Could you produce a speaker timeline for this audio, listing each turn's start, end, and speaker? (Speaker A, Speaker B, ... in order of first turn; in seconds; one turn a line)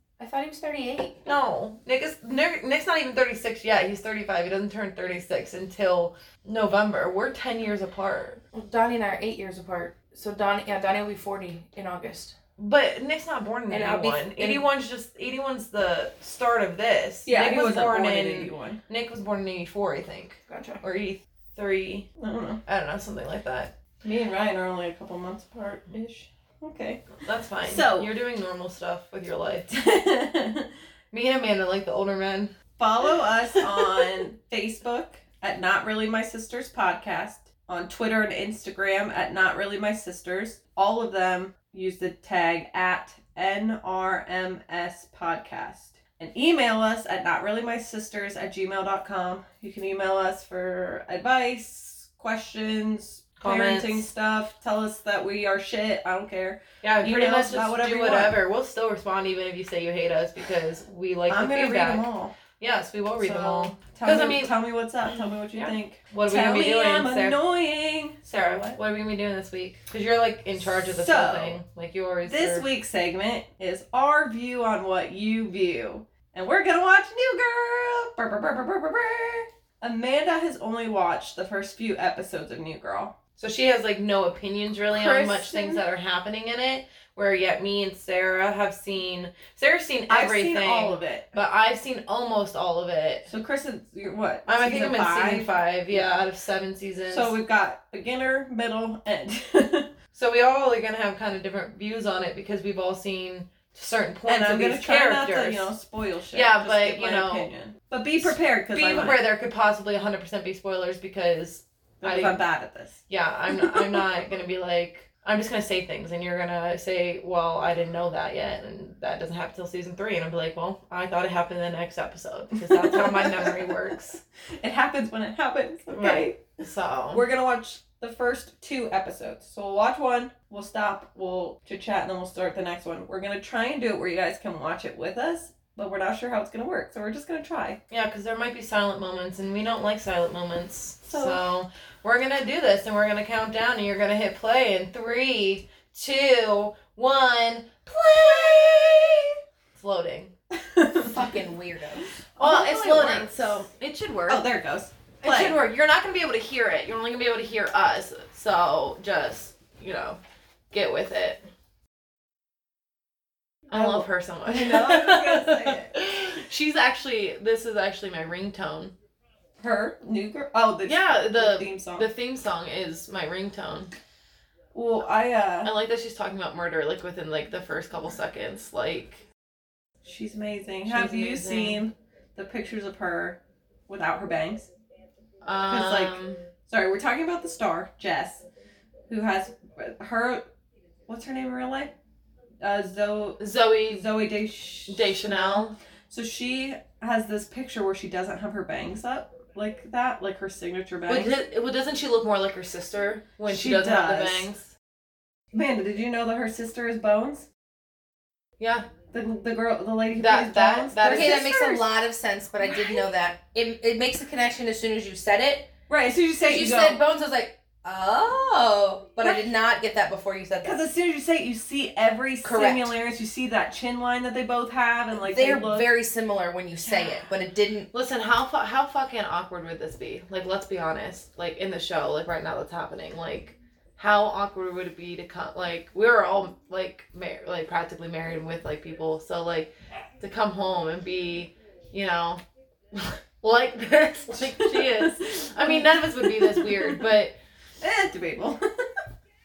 Speaker A: 0.2-1.2
Speaker B: 1.2-8.4
Speaker A: 8.5-12.3
Speaker B: 12.6-22.1
Speaker A: 13.7-14.6
Speaker C: 17.2-18.8
Speaker A: 20.5-20.8
Speaker C: 22.2-22.6
Speaker B: 22.6-23.7
Speaker C: 24.0-28.1
Speaker B: 27.2-29.7
Speaker C: 29.7-30.7
Speaker B: 31.1-32.5
Speaker C: 32.8-58.4
Speaker B: 33.7-34.2
Speaker B: 53.4-54.1
Speaker B: 56.8-62.1
Speaker C: 61.3-62.3
Speaker B: 62.6-64.5
Speaker C: 63.2-68.8
Speaker B: 65.2-67.4
Speaker B: 68.3-72.6
Speaker C: 70.8-71.6
Speaker C: 72.2-83.2
Speaker B: 83.4-93.3
Speaker C: 84.9-85.8
Speaker C: 90.1-91.3
Speaker C: 93.3-95.5
Speaker B: 94.5-97.3
Speaker C: 97.1-99.9
Speaker B: 100.1-105.7
Speaker C: 104.2-109.2
Speaker B: 106.3-107.5
Speaker B: 108.2-112.4
Speaker C: 112.0-113.0
Speaker B: 113.1-124.2
Speaker C: 113.6-114.0
Speaker C: 122.6-123.8
Speaker C: 124.6-126.5
Speaker B: 125.9-127.2
Speaker C: 127.1-137.8
Speaker B: 137.9-150.3
Speaker C: 141.1-141.4
Speaker C: 148.6-149.1
Speaker C: 150.5-151.2
Speaker A: 150.9-152.1
Speaker C: 152.3-153.6
Speaker B: 152.4-154.4
Speaker C: 154.3-155.6
Speaker B: 155.2-160.2
Speaker B: 160.7-161.4
Speaker B: 163.7-168.9
Speaker C: 163.7-166.0
Speaker C: 169.6-172.1
Speaker B: 170.8-173.9
Speaker C: 174.7-175.7
Speaker B: 175.6-179.2
Speaker C: 180.0-184.7
Speaker B: 180.8-181.8
Speaker B: 185.4-186.4
Speaker C: 185.7-188.4
Speaker C: 189.1-190.5
Speaker C: 191.1-191.9
Speaker C: 192.6-201.3
Speaker B: 193.4-194.1
Speaker B: 194.9-195.8
Speaker B: 201.1-204.7
Speaker C: 203.5-204.5
Speaker C: 205.5-207.5
Speaker B: 208.6-208.9
Speaker C: 209.1-211.8
Speaker B: 210.1-211.5
Speaker A: 211.1-215.7
Speaker C: 215.9-217.0
Speaker A: 216.4-220.8
Speaker C: 220.6-225.9
Speaker A: 222.4-222.9
Speaker A: 225.2-227.9
Speaker C: 226.8-227.2
Speaker B: 227.9-242.4
Speaker B: 242.9-247.3
Speaker C: 244.4-246.9
Speaker C: 247.8-249.0